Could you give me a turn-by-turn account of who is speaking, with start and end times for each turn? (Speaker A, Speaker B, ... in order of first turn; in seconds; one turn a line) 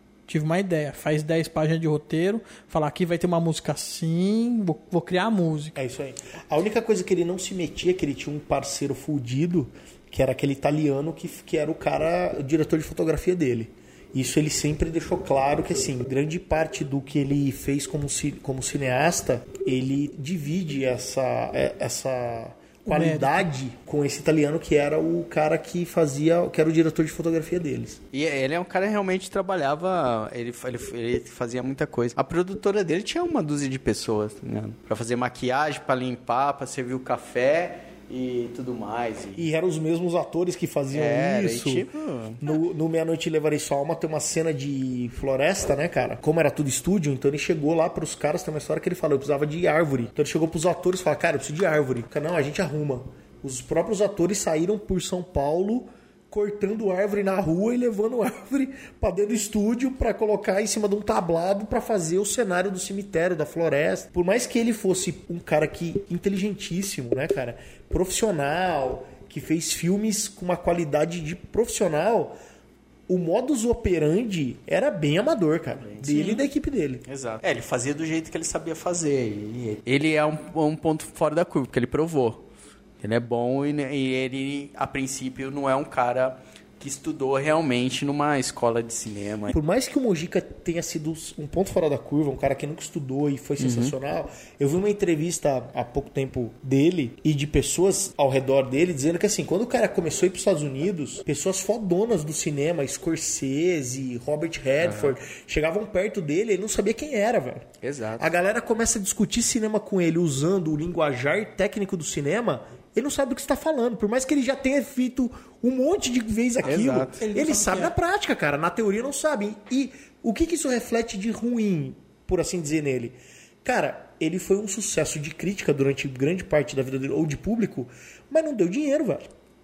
Speaker A: 0.3-5.8
Speaker B: 5.7-28.0
Speaker A: 22.9-23.5
Speaker C: 28.1-39.5
Speaker B: 39.4-41.9
Speaker C: 40.9-42.4
Speaker B: 42.4-72.3
Speaker B: 73.1-77.0
Speaker C: 75.8-76.1
Speaker A: 76.1-76.4
Speaker C: 77.0-82.4
Speaker C: 83.0-89.5
Speaker B: 89.5-129.3
Speaker C: 93.6-93.9
Speaker C: 104.8-105.2
Speaker C: 107.8-108.3
Speaker C: 116.6-117.2
Speaker A: 117.2-117.9